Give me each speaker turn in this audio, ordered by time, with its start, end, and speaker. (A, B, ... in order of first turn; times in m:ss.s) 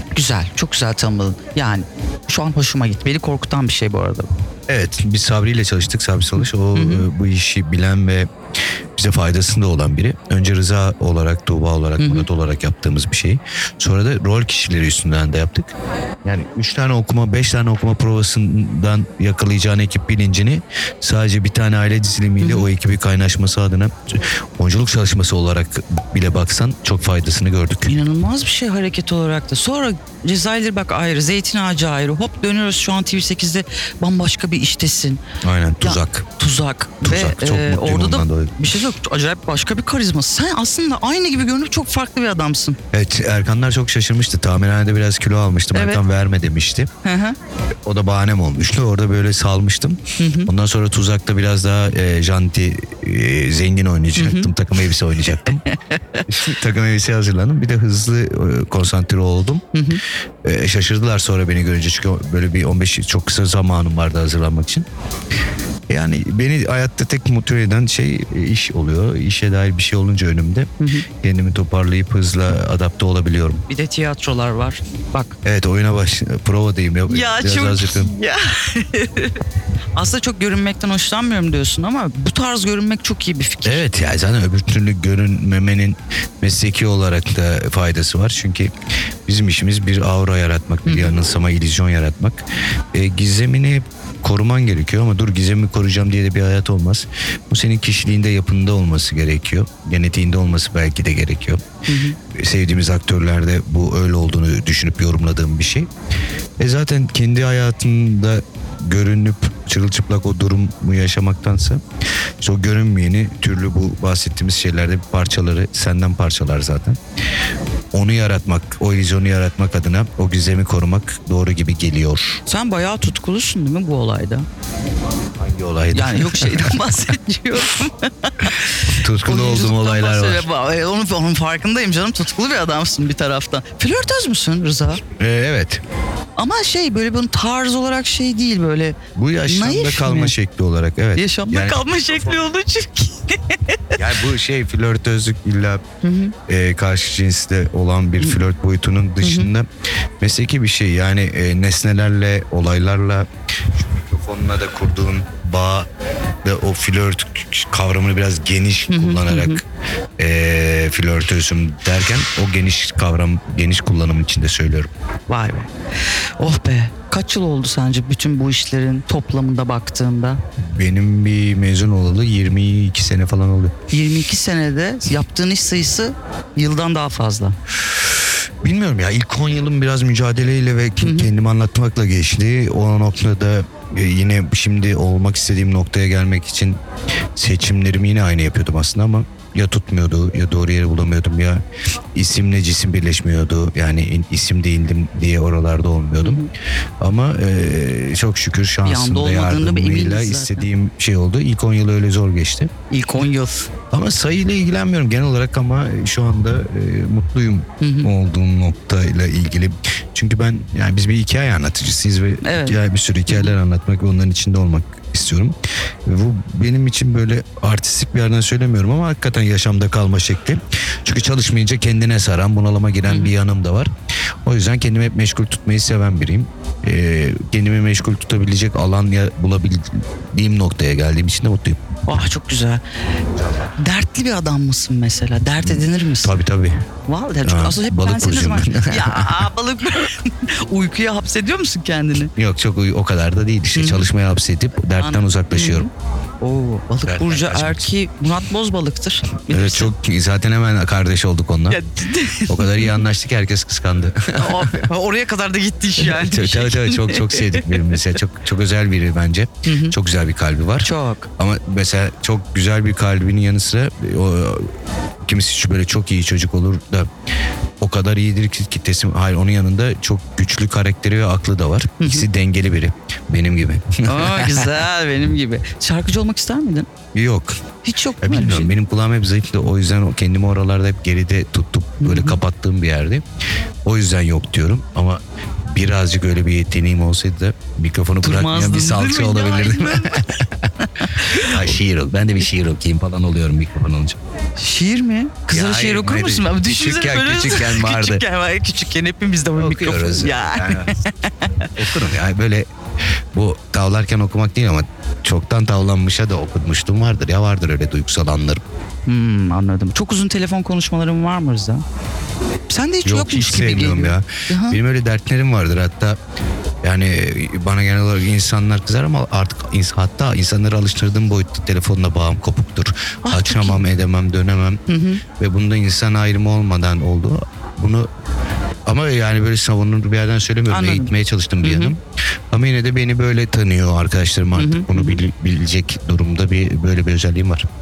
0:00.1-0:04.3 A
0:04.7-0:08.3 B
0:06.7-0:07.1 A
0:09.0-0:15.7 B
0:12.0-0:12.3 A
0:16.2-0:27.9 B
0:22.4-0:22.7 A
0:27.8-0:35.2 A
0:35.4-0:36.2 B
0:35.8-0:42.8 A
0:37.0-0:38.5 B
0:42.9-0:46.9 B
0:45.7-0:46.0 A
0:47.0-0:47.4 A
0:47.8-0:55.6 B
0:50.2-0:50.5 A
0:54.1-0:54.5 A
0:55.5-0:56.2 A
0:56.3-0:59.6 B
0:59.7-1:00.0 A
1:00.4-1:04.8 B
1:05.9-1:10.7 B
1:10.8-1:11.0 A
1:11.2-1:13.6 B
1:13.7-1:15.3 A
1:15.4-1:18.1 B
1:17.1-1:19.4 A
1:19.9-1:23.8 A
1:23.6-1:28.7 B
1:29.3-1:32.4 B
1:30.8-1:31.2 A
1:32.9-1:41.6 B
1:41.9-1:42.2 A
1:42.3-1:45.9 B
1:46.6-1:51.8 B
1:52.4-1:57.0 B
1:57.9-2:02.4 B
2:02.4-2:04.5 A
2:05.4-2:06.8 B
2:05.9-2:15.0 A
2:09.0-2:10.4 B
2:15.2-2:15.8 B
2:16.4-2:20.3 A
2:19.1-2:22.1 B
2:21.1-2:24.0 A
2:24.0-2:25.8 B
2:26.0-2:26.3 A
2:26.5-2:29.6 B
2:29.2-2:29.5 A
2:30.2-2:35.9 B
2:36.4-2:39.6 B
2:38.9-2:39.6 A
2:40.2-2:44.9 B
2:45.3-2:45.7 A
2:46.4-2:50.4 A
2:50.7-2:53.7 B
2:53.9-2:57.6 A
2:58.6-3:06.8 B
3:01.0-3:01.3 A
3:07.4-3:11.6 B
3:12.1-3:16.4 B
3:16.2-3:16.5 A
3:17.0-3:22.7 B
3:18.8-3:20.6 A
3:22.9-3:23.7 A
3:23.9-3:35.5 B
3:27.8-3:28.1 A
3:32.4-3:32.8 A
3:33.3-3:33.6 A
3:36.0-3:43.9 B
3:43.1-3:43.3 A
3:44.4-3:51.8 B
3:52.1-3:52.8 A
3:53.8-3:56.4 A
3:55.6-3:56.8 B
3:57.1-4:02.3 A
3:57.4-3:59.4 B
4:02.4-4:05.9 B
4:03.7-4:04.1 A
4:04.9-4:05.9 A
4:06.4-4:09.9 A
4:07.0-4:07.9 B
4:09.5-4:11.8 B
4:11.7-4:13.0 A
4:12.5-4:14.9 B
4:14.4-4:18.0 A
4:16.0-4:24.7 B
4:19.6-4:20.0 A
4:20.8-4:21.3 A
4:25.2-4:27.1 B
4:27.8-4:34.8 B
4:32.0-4:32.2 A
4:34.1-4:36.9 A
4:37.1-4:37.6 B
4:37.8-4:38.7 A
4:38.2-4:43.2 B
4:42.0-4:42.4 A
4:43.8-4:50.5 B
4:48.2-4:51.7 A
4:51.3-4:54.2 B
4:54.6-5:01.7 A
4:55.5-4:58.2 B
4:59.6-5:01.0 B
5:01.8-5:02.7 B
5:03.3-5:08.6 B
5:09.1-5:11.8 A
5:12.7-5:14.8 A
5:13.0-5:16.2 B
5:16.8-5:24.8 B
5:23.2-5:23.8 A
5:24.9-5:25.2 A
5:25.4-5:28.1 B
5:28.9-5:32.0 B
5:30.7-5:32.0 A
5:32.5-5:37.6 B
5:34.6-5:35.2 A